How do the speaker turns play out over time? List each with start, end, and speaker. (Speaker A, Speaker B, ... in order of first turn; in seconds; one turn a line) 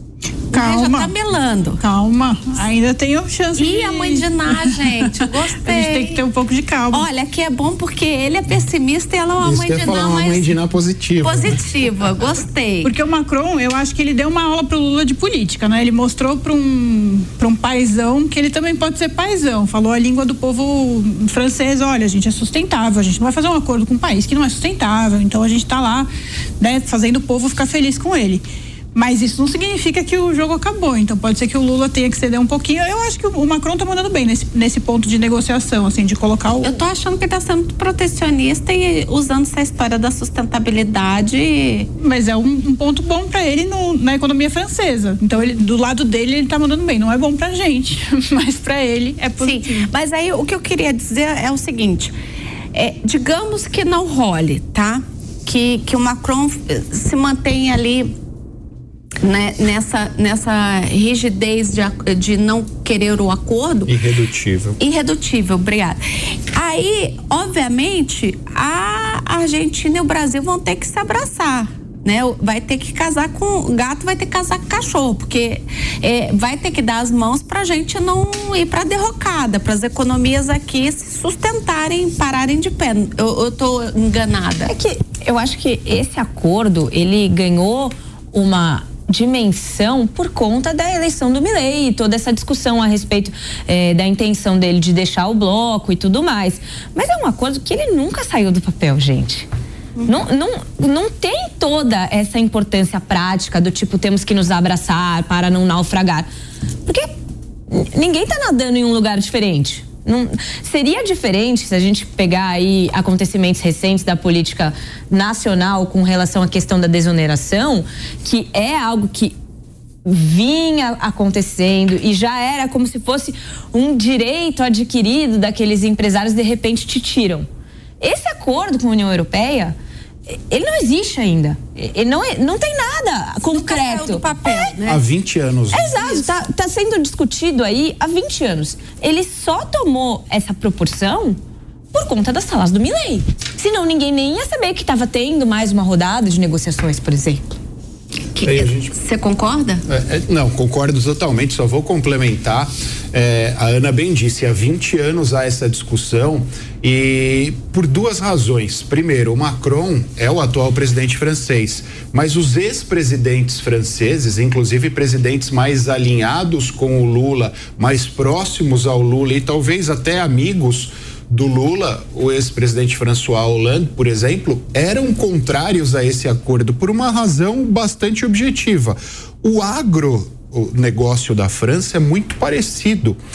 Speaker A: 0.5-1.1
Speaker B: 0.5-1.8
Speaker A: 1.8-7.1
Speaker B: 3.6-6.2
Speaker B: 6.9-10.6
Speaker C: 9.4-11.5
Speaker B: 11.2-12.9
Speaker A: 12.8-36.8
Speaker B: 36.6-41.9
Speaker A: 42.0-49.9
Speaker B: 49.4-52.1
Speaker B: 52.7-58.1
Speaker B: 59.2-63.9
Speaker C: 63.9-64.8
Speaker B: 64.8-66.0
Speaker B: 66.5-84.7
Speaker D: 84.7-99.5
Speaker D: 100.1-106.3
Speaker D: 107.7-119.3
Speaker D: 120.0-127.5
Speaker D: 128.0-129.7
Speaker D: 130.3-134.6
Speaker B: 133.4-135.0
Speaker C: 134.8-136.3
Speaker D: 135.7-141.4
Speaker D: 141.9-147.5
Speaker B: 148.3-149.8
Speaker C: 148.4-148.9
Speaker C: 149.9-183.2